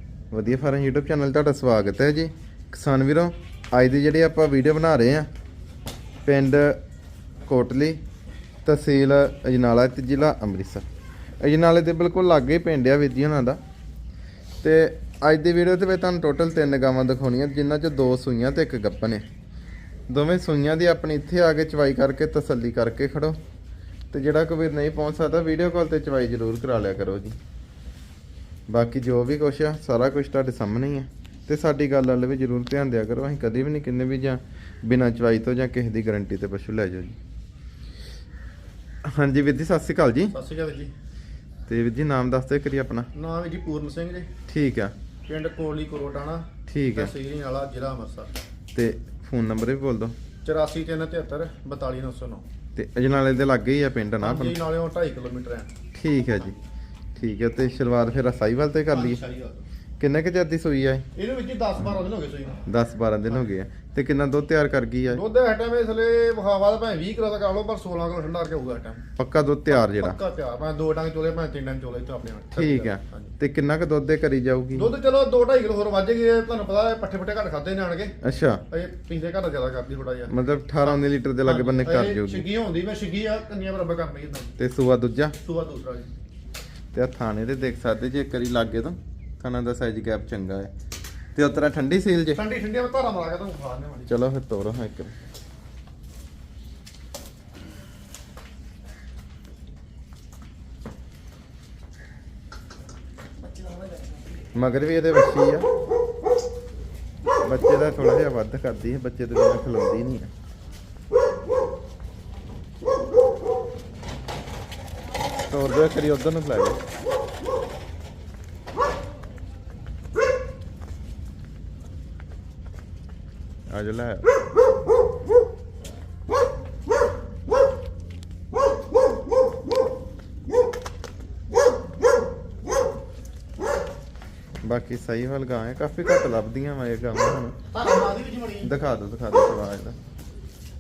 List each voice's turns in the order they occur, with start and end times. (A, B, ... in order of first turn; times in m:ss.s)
0:00.3-0:05.3 A
0:06.2-0:06.8 A
0:07.5-0:08.0 A
0:08.6-0:10.8 A
0:11.4-0:13.6 A
0:14.6-0:19.2 A
0:20.1-0:23.4 A
0:24.1-0:27.4 A
0:28.7-0:37.2 A
0:39.0-0:40.3 A
0:40.3-0:40.9 B
0:41.7-0:43.1 A
0:43.1-0:44.3 B
0:44.5-0:44.9 A
0:45.3-0:48.3 B
0:46.7-0:47.1 A
0:48.7-0:50.2 A
0:50.4-0:52.5 B
0:52.8-0:54.6 A
0:54.2-0:55.7 B
0:55.9-0:56.6 A
0:57.2-0:59.2 A
0:58.9-0:59.6 B
1:00.0-1:01.1 A
1:01.2-1:02.6 B
1:02.7-1:05.2 A
1:05.1-1:09.0 B
1:09.2-1:10.2 A
1:09.7-1:13.3 B
1:12.5-1:14.9 A
1:14.8-1:18.2 B
1:18.2-1:18.6 A
1:18.7-1:24.5 B
1:20.3-1:22.5 A
1:24.6-1:25.4 A
1:25.4-1:26.1 B
1:26.9-1:30.7 A
1:31.4-1:32.4 A
1:32.4-1:34.1 B
1:34.1-1:35.1 A
1:44.6-1:45.7 A
1:47.4-1:50.3 A
1:55.5-1:56.8 A
2:03.7-2:04.4 A
2:14.6-2:17.6 A
2:17.7-2:18.7 B
2:18.6-2:20.0 A